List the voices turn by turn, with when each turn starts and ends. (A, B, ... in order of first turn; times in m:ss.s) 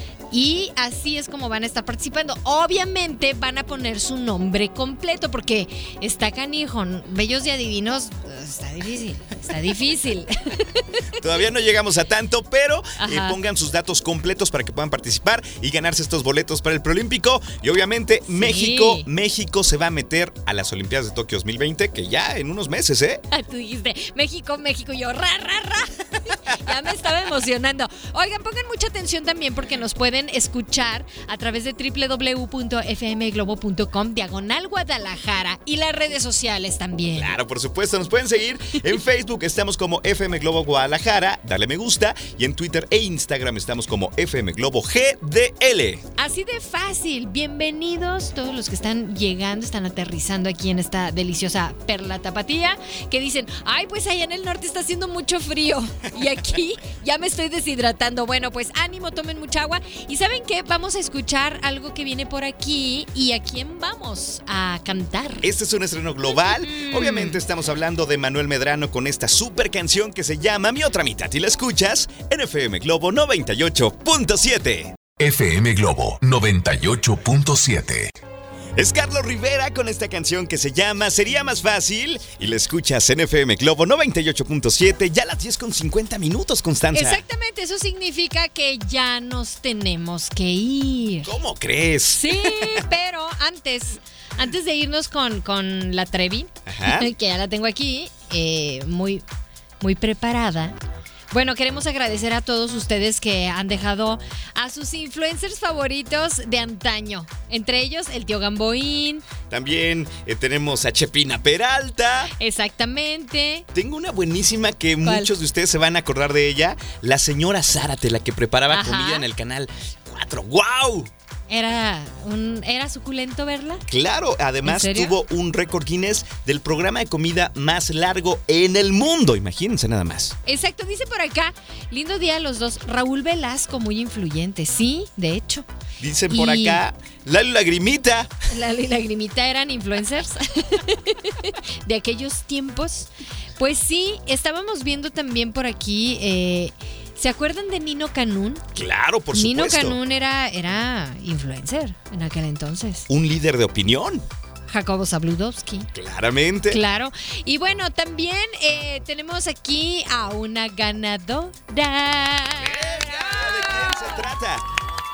0:00.3-0:11.1 A
0:11.1-0:23.2 B
0:13.0-0:13.4 A
0:18.3-0:19.1 A
0:23.3-0:37.3 A
0:37.2-0:46.0 B
0:46.2-1:05.5 A
1:05.4-1:15.0 B
1:06.4-1:07.4 A
1:15.2-1:18.1 C
1:18.8-1:27.2 B
1:26.9-1:31.3 A
1:31.2-1:32.9 B
1:32.1-1:39.2 A
1:36.7-1:37.1 B
1:39.8-1:40.8 A
1:41.3-1:49.3 A
1:49.5-1:52.3 B
1:52.4-1:53.7 A
1:53.7-2:01.1 B
1:55.0-1:55.3 A
1:58.7-1:59.3 A
2:01.5-2:03.8 A
2:03.9-2:10.4 B
2:04.6-2:05.2 A
2:10.5-2:15.7 A
2:16.0-2:18.3 B
2:16.3-2:16.8 A
2:18.5-2:28.7 A
2:28.8-2:30.0 B
2:29.3-2:33.1 A
2:33.1-2:34.3 B
2:34.7-2:35.9 A
2:35.9-2:36.8 B
2:36.7-2:44.3 A
2:42.6-2:44.6 B